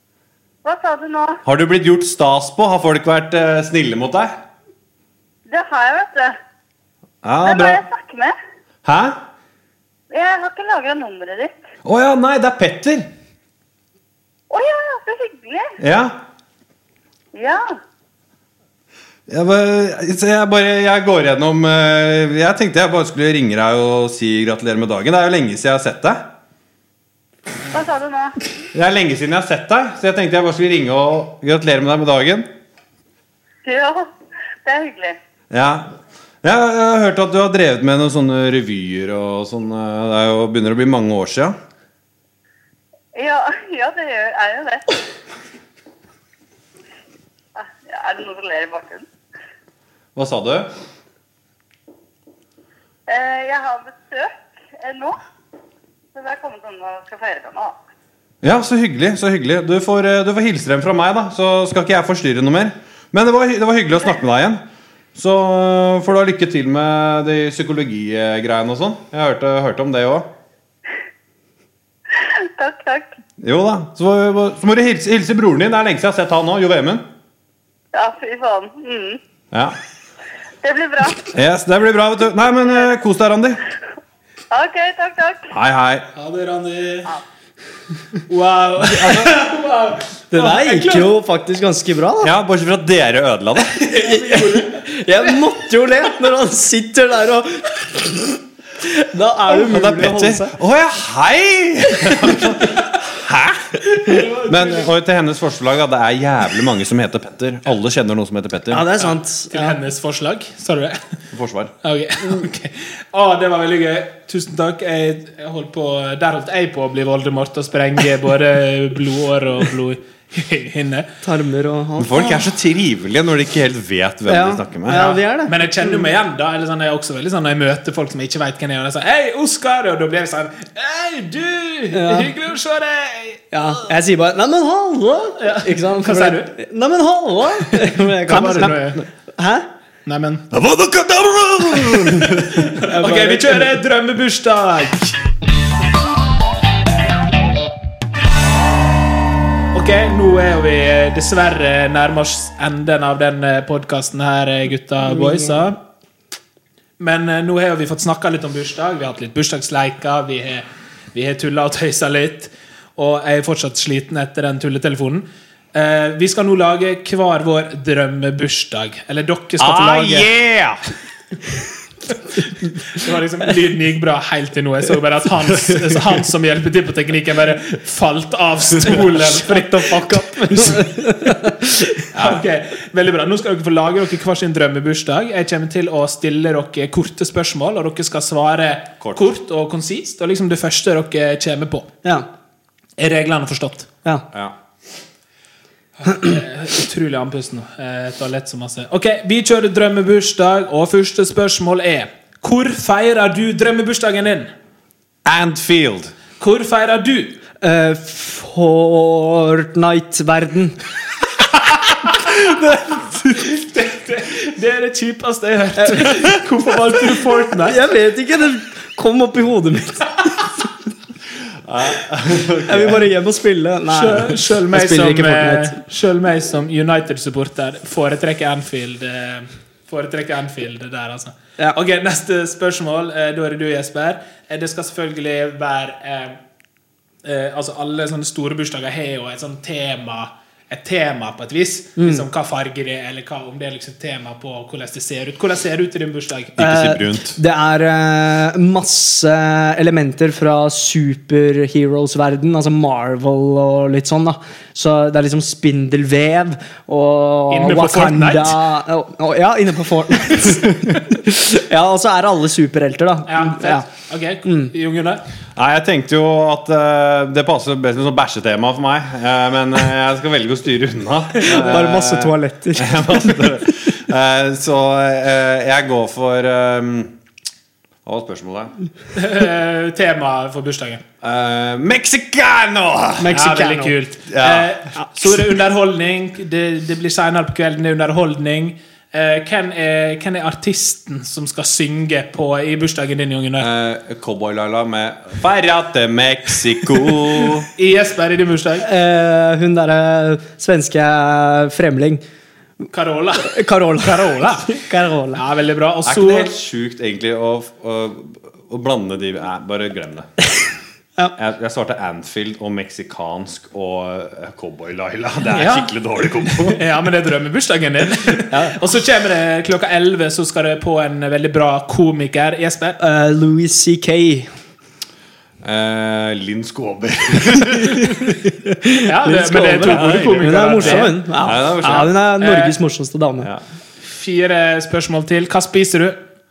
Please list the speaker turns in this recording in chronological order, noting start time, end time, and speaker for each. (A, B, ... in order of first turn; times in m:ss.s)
0:00.6-0:01.4 A
0:01.4-0:04.4 B
0:05.5-0:06.4 A
0:07.2-0:07.8 B
0:07.4-0:08.3 A
0:08.8-0:09.2 B
0:10.1-0:11.5 A
0:11.8-0:13.1 B
0:14.5-0:15.8 A
0:15.8-0:16.2 B
0:17.3-0:17.7 A
0:19.3-0:26.3 B
0:27.7-0:28.4 A
0:28.7-0:32.5 B
0:33.6-0:34.1 A
0:34.6-0:35.2 A
0:35.5-0:35.9 B
0:36.4-0:41.6 B
0:43.2-0:45.0 A
0:47.6-0:49.1 A
0:50.2-0:50.7 B
0:53.1-0:55.2 A
0:56.2-0:57.8 A
0:58.4-1:04.6 B
1:05.2-1:10.3 B
1:12.1-1:13.1 A
1:13.4-1:17.0 B
1:17.9-1:19.2 A
1:20.6-1:21.3 A
1:21.3-1:23.6 B
1:24.5-1:25.5 A
1:25.5-1:26.1 B
1:26.2-1:27.1 C
1:28.3-1:31.1 C
1:28.8-1:29.4 B
1:30.3-1:32.3 D
1:32.2-1:33.8 B
1:33.8-1:35.4 C
1:33.9-1:40.5 D
1:39.5-1:43.8 B
1:43.9-1:44.9 C
1:44.5-1:48.9 B
1:48.7-1:49.8 D
1:49.0-1:51.0 C
1:51.3-1:51.7 B
1:51.8-2:01.1 C
2:01.2-2:02.5 D
2:02.0-2:05.2 B
2:04.3-2:06.1 D
2:05.0-2:13.4 C
2:11.9-2:12.3 D
2:13.5-2:19.7 D
2:15.4-2:16.5 C
2:17.7-2:19.0 C
2:20.1-2:20.5 C
2:20.5-2:22.7 B
2:22.1-2:25.2 C
2:22.8-2:23.8 D
2:29.7-2:35.8 C
2:35.2-2:35.6 D
2:37.0-2:50.3 C
2:49.6-2:50.8 B
2:52.1-3:00.7 C
2:58.9-3:02.1 D
3:02.1-3:02.4 B
3:02.1-3:11.9 C
3:13.0-3:13.9 C
3:16.0-3:24.5 C
3:25.2-3:26.1 B
3:26.4-3:27.4 C
3:27.6-3:30.8 D
3:32.2-3:33.3 B
3:33.3-3:37.8 C
3:35.8-3:36.3 D
3:37.6-3:40.5 D
3:41.6-3:43.0 B
3:42.7-3:45.8 D
3:43.9-3:56.4 C
3:57.2-4:06.6 C
4:02.0-4:02.3 D
4:06.6-4:07.4 B
4:06.6-4:23.8 D
4:17.5-4:18.6 C
4:23.3-4:25.2 C
4:24.4-4:24.7 D
4:25.6-4:37.2 B
4:31.4-4:33.6 D
4:38.0-4:38.7 B
4:39.2-4:41.0 C
4:41.2-4:43.3 B
4:43.2-4:43.9 D
4:43.3-4:53.7 C
4:44.3-4:44.8 B
4:53.6-4:57.7 B
4:57.8-4:58.9 C
4:58.8-5:02.2 D
5:02.9-5:04.8 C
5:03.4-5:05.4 D
5:05.4-5:06.5 C
5:06.0-5:10.3 B
5:11.4-5:16.8 B
5:15.5-5:15.9 C
5:16.7-5:23.0 C
5:23.0-5:24.5 D
5:25.6-5:28.4 B
5:28.5-5:33.5 D
5:29.0-5:31.3 C
5:29.8-5:32.1 B
5:31.8-5:32.8 C
5:34.0-5:36.2 C